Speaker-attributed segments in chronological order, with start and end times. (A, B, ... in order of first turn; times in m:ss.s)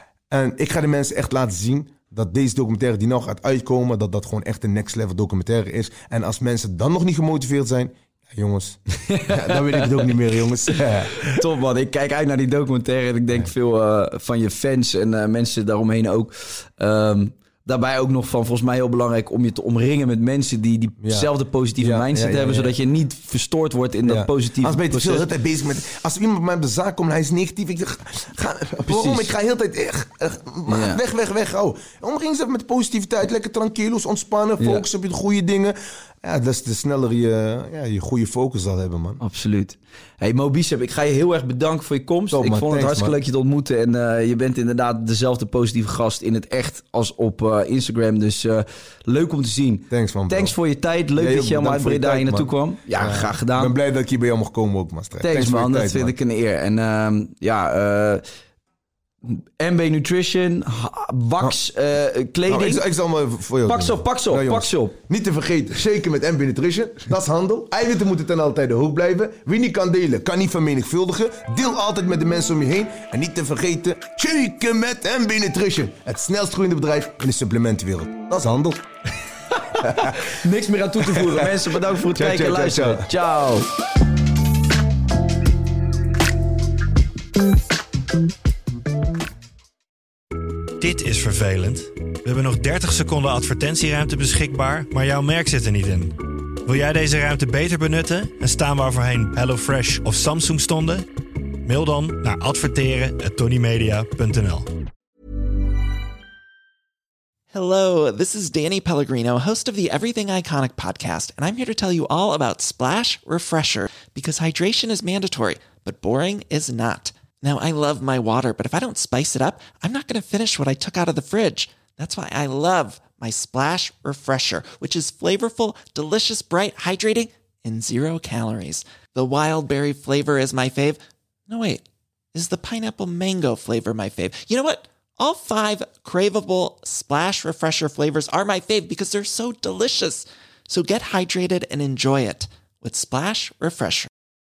0:00.3-0:11.4 A
0:09.0-0:10.1 B
0:10.7-0:25.3 B
0:21.0-0:22.7 A
0:24.0-0:39.2 A
0:28.9-0:29.3 B
0:30.7-0:31.0 B
0:34.6-0:34.8 B
0:39.2-0:53.7 B
0:42.3-0:43.1 A
0:49.9-0:50.5 A
0:51.1-0:56.1 A
0:55.2-0:58.2 B
0:59.2-1:02.8 B
1:02.5-1:18.8 A
1:03.6-1:05.0 B
1:19.5-1:23.7 B
1:19.8-1:20.3 A
1:21.0-1:23.1 A
1:30.8-1:41.1 C
1:41.6-1:44.7 C
1:47.5-2:24.1 D